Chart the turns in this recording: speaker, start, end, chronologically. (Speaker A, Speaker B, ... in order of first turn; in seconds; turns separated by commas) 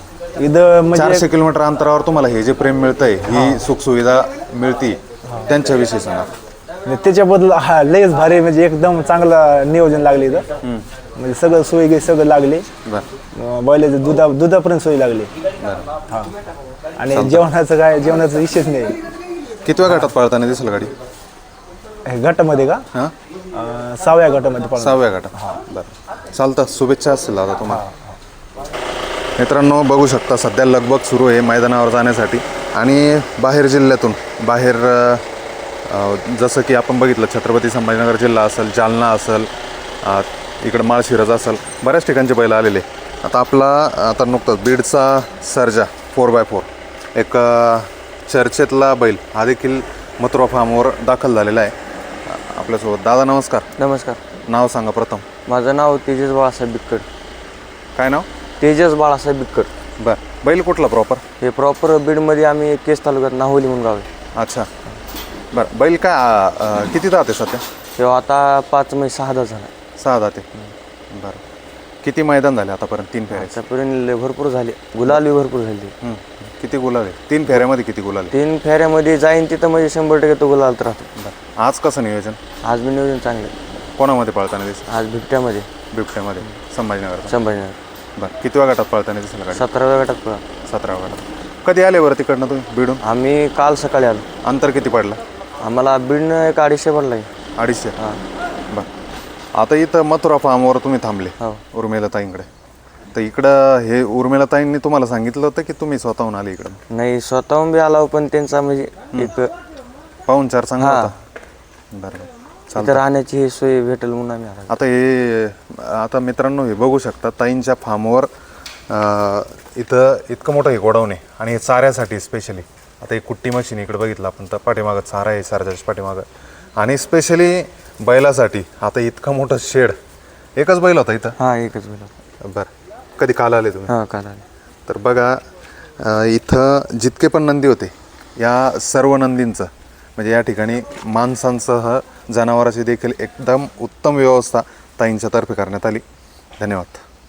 Speaker A: 0.4-1.1, Speaker B: 0.9-6.3, Speaker A: 6.9-10.4, Speaker A: 11.2-12.7, Speaker A: 13.4-15.3, Speaker B: 15.6-15.9, Speaker A: 17.1-18.9, Speaker B: 17.1-17.5, Speaker B: 19.6-20.9, Speaker A: 22.1-22.8, Speaker A: 23.6-24.9, Speaker B: 24.8-27.8, Speaker B: 29.4-35.2, Speaker B: 35.9-39.5, Speaker B: 40.0-51.7, Speaker B: 52.3-53.7, Speaker C: 53.8-54.2, Speaker B: 54.5-55.2, Speaker C: 55.5-57.1, Speaker B: 58.0-58.3, Speaker C: 58.6-59.7, Speaker B: 60.0-61.2, Speaker C: 61.4-64.1, Speaker B: 64.4-64.7, Speaker B: 65.5-67.6, Speaker C: 68.0-69.7, Speaker B: 70.0-70.5, Speaker B: 71.1-71.4, Speaker B: 72.0-73.5, Speaker C: 73.3-75.9, Speaker B: 76.0-78.3, Speaker C: 78.3-81.1, Speaker B: 81.2-82.4, Speaker C: 82.6-83.6, Speaker B: 84.0-84.9, Speaker C: 84.9-85.7, Speaker B: 85.9-87.4, Speaker C: 87.3-87.8, Speaker B: 88.2-89.6, Speaker C: 89.5-90.5, Speaker B: 90.7-93.0, Speaker C: 93.0-94.3, Speaker B: 94.4-95.2, Speaker C: 95.6-97.3, Speaker B: 97.6-98.0, Speaker C: 98.0-98.2, Speaker B: 99.5-102.5, Speaker B: 103.1-106.8, Speaker C: 106.9-109.5, Speaker B: 110.3-111.2, Speaker C: 110.8-111.1, Speaker B: 111.9-113.0, Speaker C: 112.8-114.8, Speaker B: 114.7-118.3, Speaker B: 118.9-126.3, Speaker B: 126.8-129.9, Speaker B: 130.6-131.4, Speaker C: 131.4-132.1, Speaker B: 132.4-133.9, Speaker C: 133.9-134.4, Speaker B: 134.9-135.4, Speaker B: 136.0-146.0, Speaker B: 146.6-147.0